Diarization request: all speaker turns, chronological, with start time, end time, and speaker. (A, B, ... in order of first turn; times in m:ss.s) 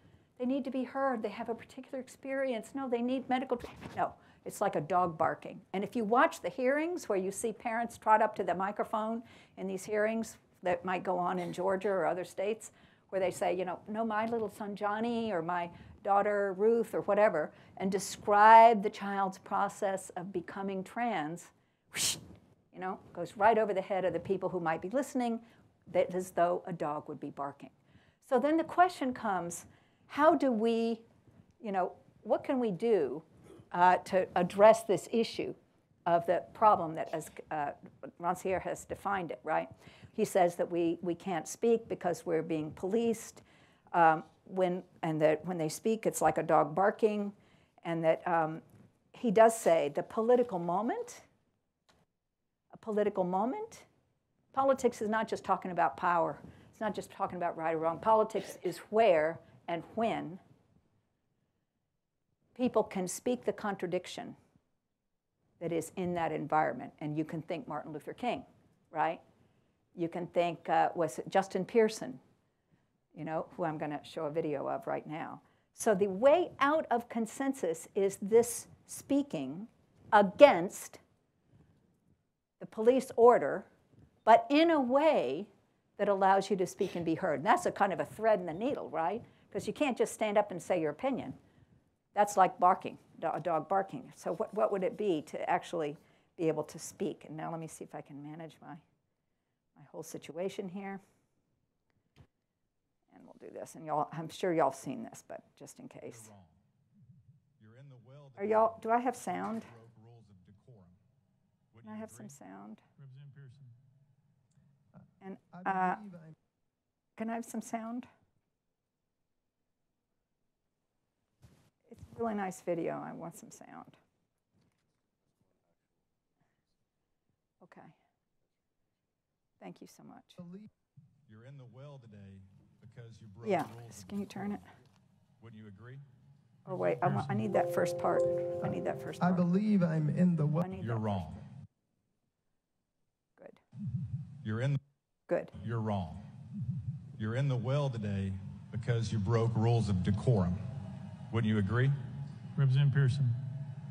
0:00.4-0:22.2 A
0:22.7-0:27.7 A
0:28.2-0:31.0 A
0:31.6-0:48.6 A
0:49.1-0:51.2 A
0:52.7-0:53.8 A
0:54.5-1:00.4 A
1:02.6-1:04.4 A
1:05.6-1:09.2 A
1:10.0-1:12.2 A
1:13.1-1:21.0 A
1:22.6-1:23.7 A
1:24.2-1:31.4 A
1:32.1-1:38.8 A
1:39.8-1:41.0 A
1:43.1-1:46.3 A
1:46.1-1:46.6 B
1:47.6-1:51.0 B
1:48.4-1:49.7 A
1:51.7-1:52.3 B
1:51.8-1:52.8 A
1:53.0-1:53.7 B
1:55.2-1:56.0 A
1:55.6-1:56.3 C
1:57.2-1:58.1 A
2:01.9-2:04.0 A
2:07.6-2:07.9 A
2:09.6-2:10.4 A
2:10.4-2:10.6 C
2:11.3-2:14.5 B
2:13.4-2:14.6 A
2:15.4-2:16.0 B
2:16.6-2:19.4 A
2:16.7-2:17.4 B
2:18.6-2:20.7 C
2:20.6-2:21.2 A
2:20.8-2:21.4 B
2:24.4-2:24.8 B
2:25.6-2:26.3 B
2:27.2-2:31.9 B
2:32.6-2:33.3 B